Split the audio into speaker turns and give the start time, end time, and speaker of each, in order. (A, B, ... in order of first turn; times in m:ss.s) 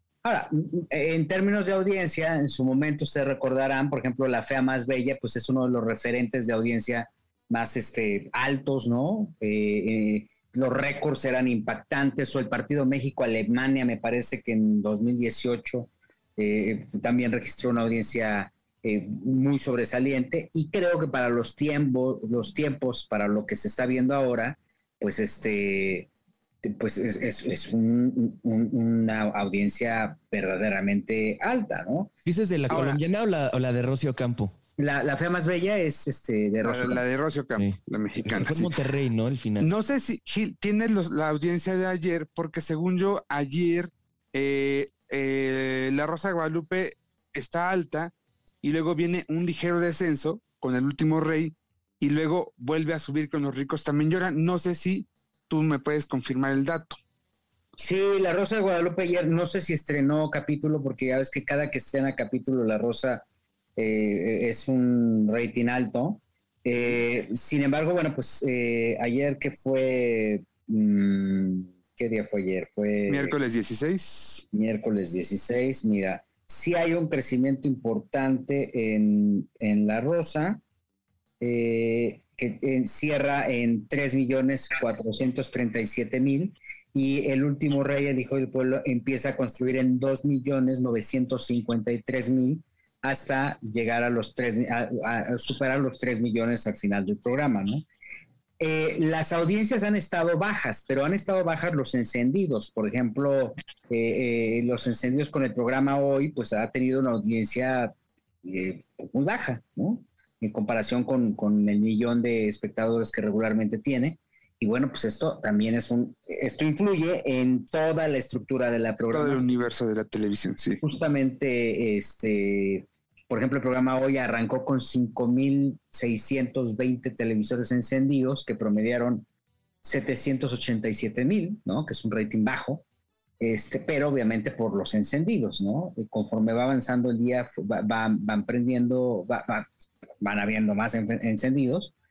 0:00.2-0:26.1 A
0:26.6-0:32.1 A
0:32.2-0:34.5 B
0:32.7-0:33.0 C
0:34.8-0:37.0 A
0:36.6-0:38.7 C
0:37.6-0:39.7 B
0:39.6-0:57.0 C
0:57.8-1:03.2 A
1:03.8-1:13.4 A
1:13.1-1:14.4 C
1:14.5-1:20.6 A
1:21.4-1:37.8 A
1:38.6-1:47.9 A
1:48.4-1:59.5 A
1:59.1-2:00.8 C
2:00.8-2:09.2 A
2:09.8-2:12.8 A
2:13.4-2:21.9 A